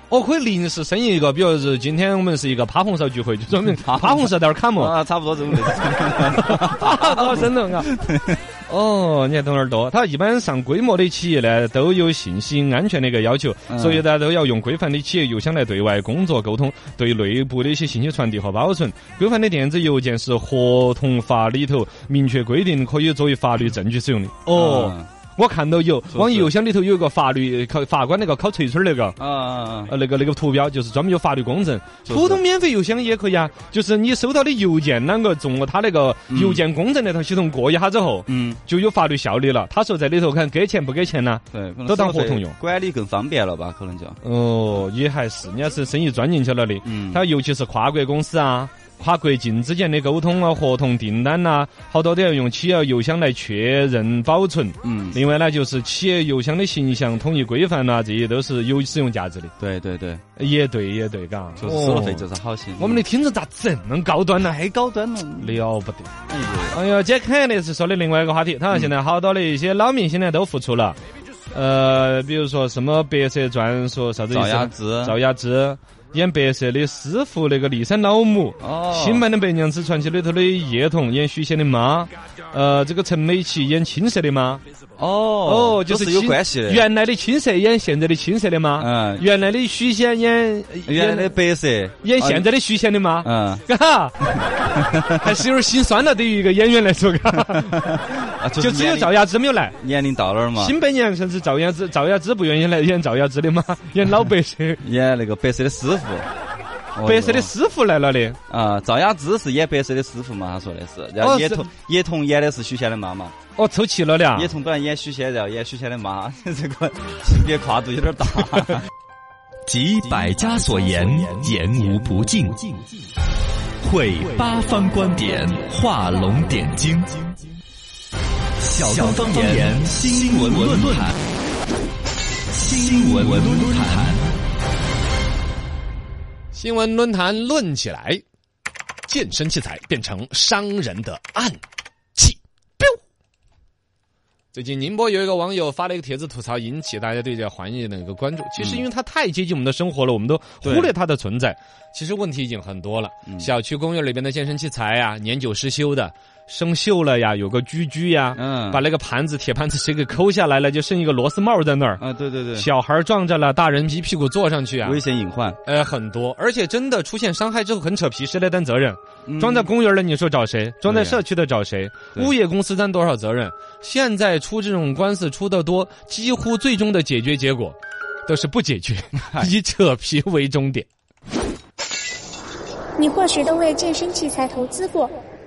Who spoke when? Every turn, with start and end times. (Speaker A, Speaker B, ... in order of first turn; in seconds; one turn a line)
Speaker A: 0.1-5.0
Speaker B: 3.7-8.4
Speaker A: 5.5-8.0
Speaker A: 8.7-29.2
Speaker B: 13.7-14.0
Speaker B: 24.5-25.1
Speaker B: 26.1-26.5
Speaker B: 29.2-29.9
Speaker A: 29.9-42.6
Speaker B: 32.1-32.4
Speaker B: 36.3-36.6
Speaker B: 38.3-38.6
Speaker B: 41.5-44.2
Speaker A: 44.2-59.5
Speaker B: 46.8-47.2
Speaker B: 54.8-55.2
Speaker B: 59.6-60.2
Speaker A: 60.4-62.2
Speaker B: 61.6-63.0
Speaker A: 62.8-64.6
Speaker B: 64.4-65.6
Speaker A: 65.4-66.1
Speaker B: 66.3-66.8
Speaker A: 66.7-71.0
Speaker A: 71.5-84.6
Speaker B: 74.3-75.2
Speaker B: 78.6-79.3
Speaker B: 85.0-86.9
Speaker A: 85.4-91.3
Speaker B: 88.8-89.3
Speaker B: 90.8-92.5
Speaker A: 92.0-94.2
Speaker B: 93.2-93.6
Speaker B: 94.8-95.1
Speaker A: 95.0-97.9
Speaker B: 97.3-99.2
Speaker A: 98.6-99.8
Speaker B: 99.8-100.8
Speaker A: 100.6-104.8
Speaker B: 104.8-106.3
Speaker B: 106.9-107.5
Speaker A: 107.0-108.4
Speaker B: 108.5-113.3
Speaker A: 111.2-111.7
Speaker A: 113.6-114.6
Speaker B: 114.3-118.8
Speaker C: 119.7-122.8
Speaker C: 123.8-127.2
Speaker C: 128.6-131.2
Speaker C: 132.5-134.3
Speaker A: 136.5-138.2
Speaker A: 139.1-141.6
Speaker A: 142.1-143.0
Speaker A: 144.5-162.0
Speaker B: 148.6-148.9
Speaker B: 150.6-150.9
Speaker B: 153.3-153.5
Speaker B: 158.3-158.8
Speaker B: 162.0-162.7
Speaker A: 162.6-165.0
Speaker B: 164.8-165.6
Speaker A: 165.6-180.9
Speaker B: 169.3-169.7
Speaker B: 170.9-171.2
Speaker B: 179.2-179.5
Speaker D: 183.0-185.1